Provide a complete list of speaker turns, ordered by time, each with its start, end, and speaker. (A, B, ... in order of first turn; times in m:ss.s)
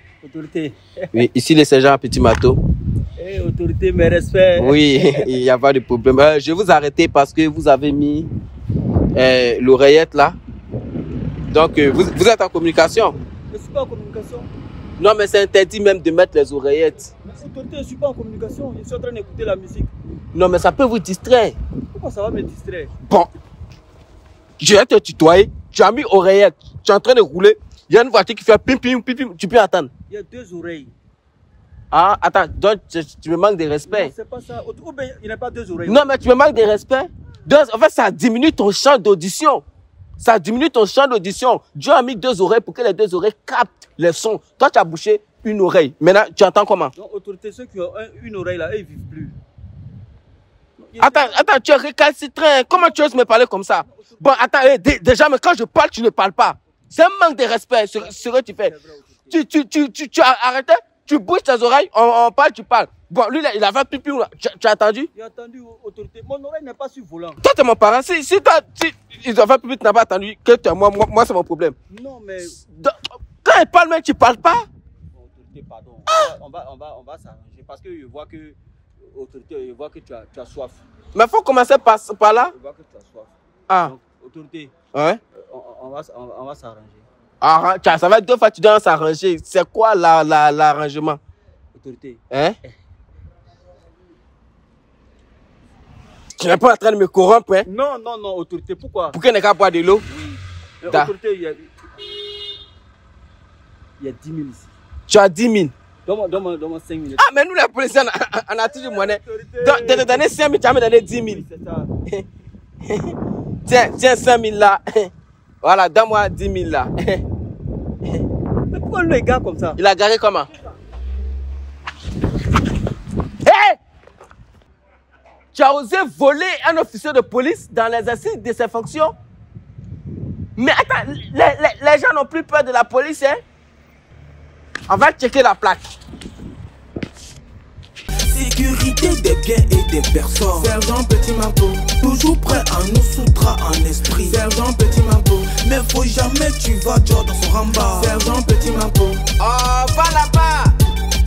0:00.2-0:01.2 A
0:01.1-0:02.6 B
0:03.2-0:05.3 A
0:04.6-0:08.3 B
0:09.1-0:10.4 B
0:11.5-0:13.2 B
0:13.5-0:14.5 A
0:15.0-0:17.1 B
0:17.2-0:19.9 A
0:20.3-0:21.6 B
0:21.9-0:22.9 A
0:24.6-0:29.9 B
0:30.1-0:30.9 A
0:31.9-0:34.1 B
0:33.8-0:36.1 A
0:35.8-0:39.6 B
0:40.2-0:46.9 B
0:46.9-0:49.4 A
0:50.8-0:51.4 A
0:51.0-0:58.7 B
0:52.7-0:53.2 A
0:53.8-0:54.5 A
0:58.0-0:59.4 A
0:59.3-1:05.1 B
1:05.1-1:07.4 A
1:07.4-1:11.8 B
1:11.9-1:12.6 A
1:12.6-1:14.7 B
1:15.1-1:18.6 A
1:19.1-1:20.8 A
1:21.1-1:22.5 B
1:22.2-1:24.7 A
1:24.9-1:25.2 B
1:25.3-1:27.0 A
1:27.4-1:31.2 B
1:31.7-1:32.7 A
1:32.3-1:32.6 B
1:36.4-1:37.7 B
1:37.6-1:39.2 A
1:39.1-1:40.0 B
1:40.1-1:41.7 A
1:44.0-1:44.7 A
1:45.1-1:45.7 B
1:46.0-1:47.3 A
1:47.2-1:51.4 B
1:48.7-1:50.3 A
1:51.2-1:51.9 A
1:52.8-1:55.1 B
1:55.6-1:57.2 B
1:58.7-1:59.8 A
1:59.8-2:00.5 B
2:03.4-2:03.8 B
2:05.5-2:09.1 B
2:10.6-2:13.4 B
2:14.9-2:15.8 B
2:18.2-2:29.3 C
2:29.4-2:30.7 B